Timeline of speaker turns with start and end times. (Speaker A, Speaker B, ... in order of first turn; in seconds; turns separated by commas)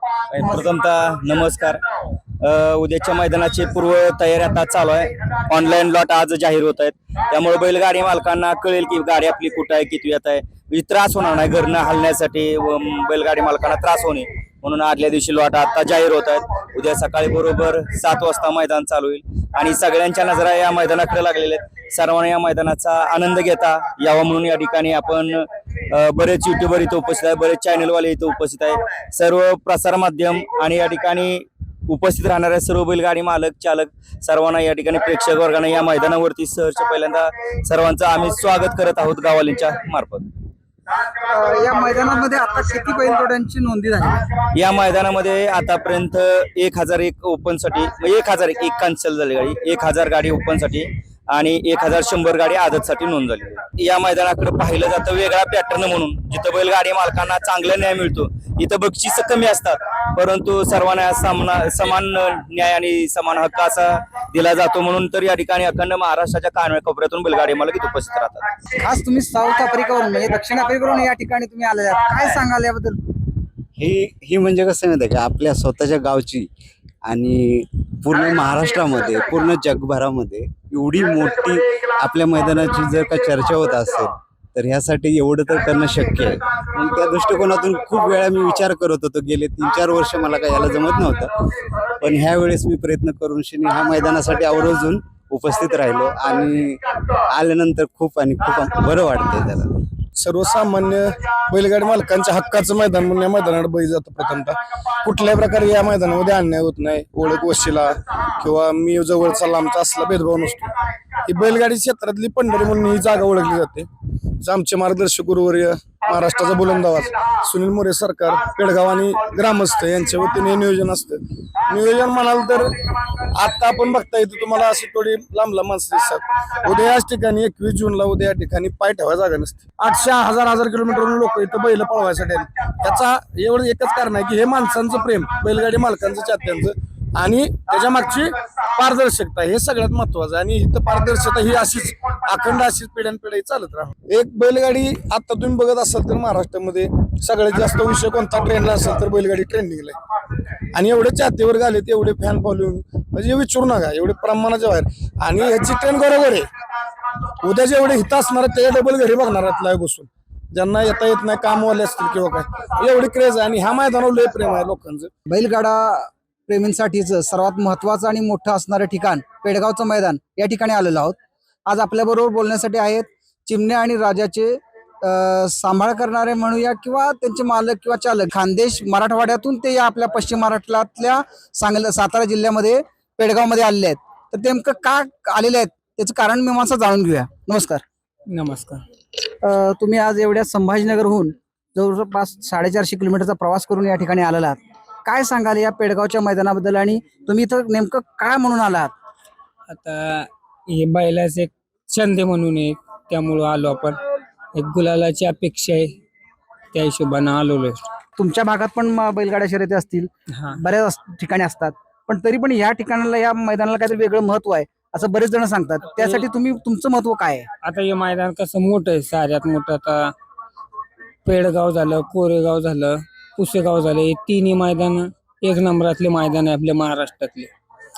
Speaker A: 0.3-1.8, Speaker A: 2.4-40.3, Speaker B: 41.1-44.2, Speaker A: 44.5-68.5, Speaker B: 68.8-73.0, Speaker C: 73.8-76.5, Speaker C: 77.1-91.2, Speaker C: 92.0-96.8, Speaker C: 97.3-99.4, Speaker D: 100.2-110.7, Speaker D: 111.2-113.9, Speaker D: 114.4-122.7, Speaker D: 123.3-149.9, Speaker D: 150.7-156.4, Speaker D: 157.4-165.1, Speaker B: 165.3-187.8, Speaker E: 188.3-188.8, Speaker B: 189.4-198.9, Speaker E: 199.7-204.0, Speaker E: 204.5-205.9, Speaker E: 206.7-207.9, Speaker B: 208.2-217.5, Speaker E: 217.6-220.1, Speaker E: 221.2-227.5